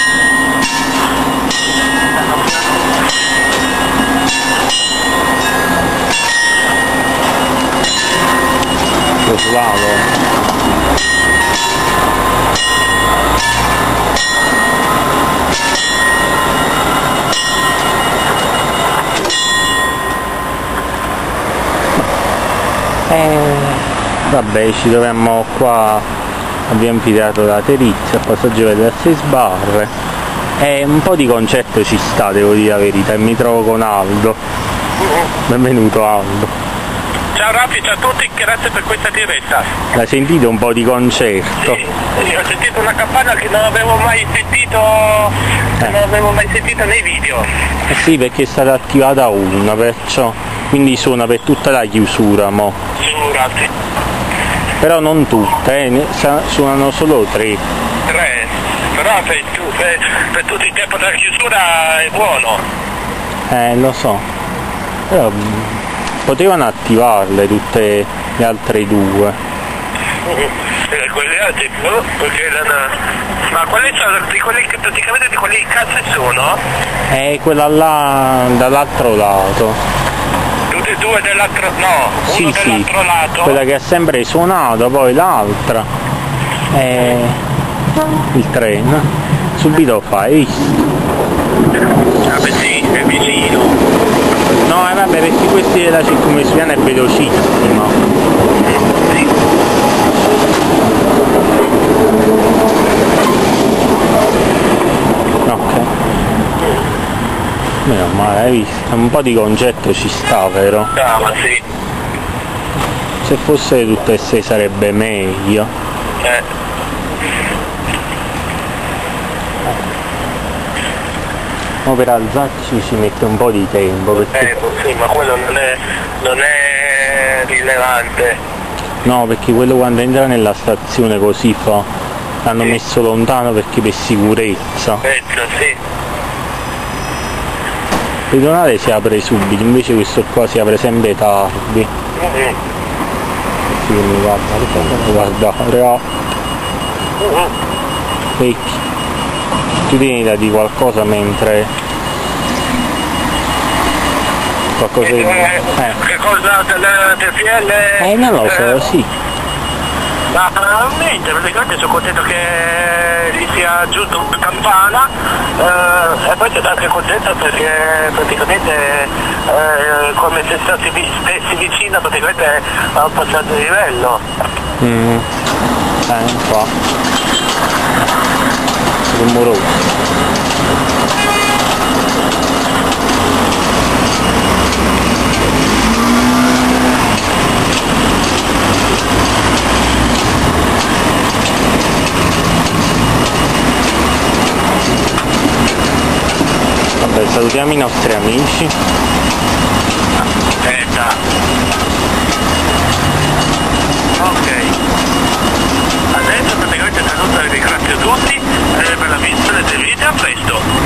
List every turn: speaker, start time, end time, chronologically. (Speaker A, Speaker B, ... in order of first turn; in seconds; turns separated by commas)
Speaker A: 9.2-10.1, Speaker A: 23.1-26.0, Speaker A: 26.7-29.9, Speaker A: 30.6-34.4, Speaker A: 35.5-36.5, Speaker B: 37.3-39.7, Speaker A: 39.9-41.8, Speaker B: 41.6-47.5, Speaker A: 47.9-52.8, Speaker B: 53.0-53.7, Speaker A: 54.8-57.6, Speaker B: 58.1-62.6, Speaker A: 63.5-64.2, Speaker A: 65.1-69.3, Speaker B: 70.2-76.6, Speaker A: 77.1-79.8, Speaker B: 80.7-83.6, Speaker A: 82.3-82.9, Speaker A: 83.4-85.9, Speaker A: 86.7-87.4, Speaker A: 88.3-90.8, Speaker B: 92.2-93.8, Speaker A: 94.6-98.0, Speaker B: 98.9-99.2, Speaker A: 105.4-105.9, Speaker A: 107.8-110.9, Speaker B: 110.9-111.6, Speaker A: 113.2-115.7, Speaker A: 121.8-124.5, Speaker B: 124.2-128.4, Speaker A: 129.0-131.9, Speaker A: 132.4-135.0, Speaker B: 135.0-135.8, Speaker A: 138.3-141.9, Speaker B: 142.2-142.6, Speaker A: 143.7-146.0, Speaker B: 147.2-147.5, Speaker A: 148.4-148.8, Speaker A: 149.9-151.7, Speaker A: 154.8-156.0, Speaker B: 155.0-158.7, Speaker A: 158.0-159.1, Speaker B: 160.3-174.2, Speaker A: 174.8-175.2, Speaker A: 176.1-176.7, Speaker A: 179.1-179.8, Speaker A: 197.0-198.7, Speaker B: 200.6-201.2, Speaker B: 204.2-204.7, Speaker B: 206.1-210.6